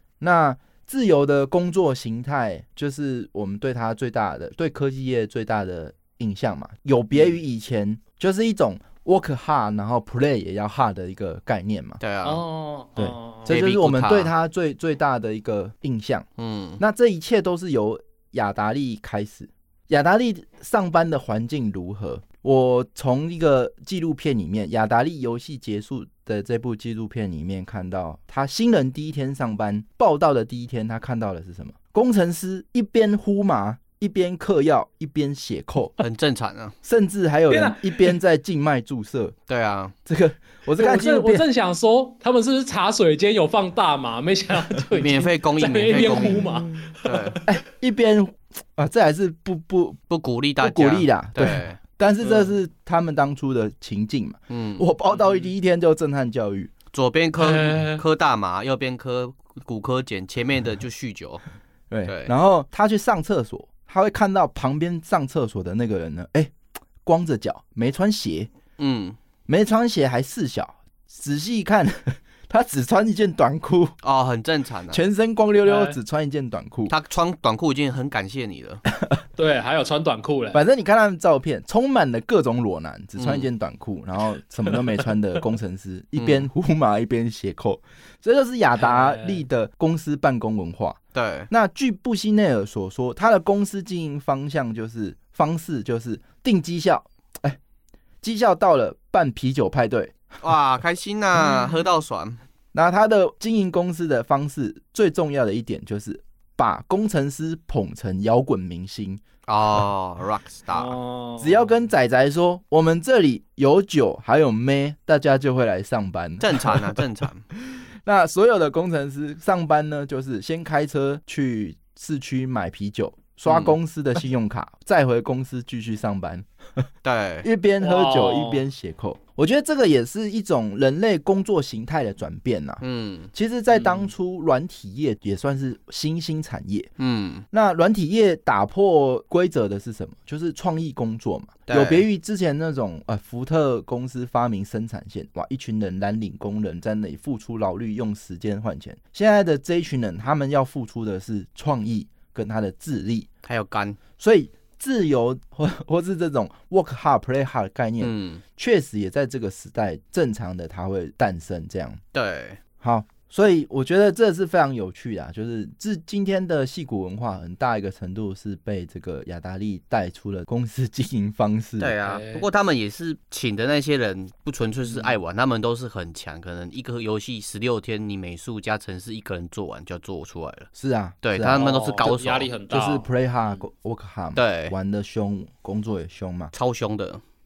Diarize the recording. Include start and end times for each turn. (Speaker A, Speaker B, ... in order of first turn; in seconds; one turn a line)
Speaker A: 0.2-12.0
Speaker B: 12.0-12.4
Speaker C: 12.2-13.5
Speaker A: 13.0-16.2
Speaker B: 13.5-14.3
Speaker B: 16.4-16.8
Speaker A: 16.8-36.0
Speaker B: 36.0-36.7
Speaker A: 36.8-39.4
Speaker C: 37.5-38.2
Speaker B: 39.5-39.9
Speaker A: 40.0-41.5
Speaker C: 40.8-47.5
Speaker B: 44.9-47.4
Speaker A: 45.9-46.5
Speaker A: 47.5-50.0
Speaker B: 50.1-51.8
Speaker A: 50.6-56.7
Speaker C: 52.2-52.5
Speaker B: 54.5-54.9
Speaker C: 55.1-55.5
Speaker B: 56.9-61.4
Speaker C: 57.4-58.0
Speaker A: 61.9-66.5
Speaker B: 62.0-62.3
Speaker A: 67.0-68.5
Speaker B: 68.8-69.2
Speaker A: 69.5-74.0
Speaker B: 74.0-75.0
Speaker A: 74.9-76.9
Speaker C: 75.6-76.0
Speaker B: 76.9-78.8
Speaker C: 79.4-80.6
Speaker A: 80.5-91.0
Speaker B: 83.2-83.5
Speaker B: 86.2-86.5
Speaker C: 88.8-89.4
Speaker B: 91.1-91.5
Speaker A: 91.5-97.6
Speaker A: 98.2-100.2
Speaker B: 100.4-102.4
Speaker A: 102.7-109.2
Speaker B: 109.5-110.9
Speaker C: 110.7-111.7
Speaker A: 111.4-117.0
Speaker B: 116.4-117.4
Speaker A: 117.5-126.8
Speaker B: 123.5-123.7
Speaker B: 127.0-127.5
Speaker A: 127.4-132.8
Speaker C: 127.8-128.7
Speaker B: 132.8-133.3
Speaker A: 133.3-136.9
Speaker C: 133.7-134.1
Speaker B: 137.0-137.4
Speaker A: 137.5-153.3
Speaker B: 141.7-142.0
Speaker B: 153.4-154.0
Speaker A: 154.2-162.0
Speaker B: 158.0-158.4
Speaker B: 162.1-162.6
Speaker A: 162.8-172.0
Speaker B: 171.8-180.7
Speaker C: 172.0-172.5
Speaker C: 174.9-175.2
Speaker A: 180.7-182.1
Speaker B: 181.2-182.5
Speaker C: 181.5-183.6
Speaker A: 182.7-186.5
Speaker B: 184.3-184.7
Speaker B: 186.5-187.2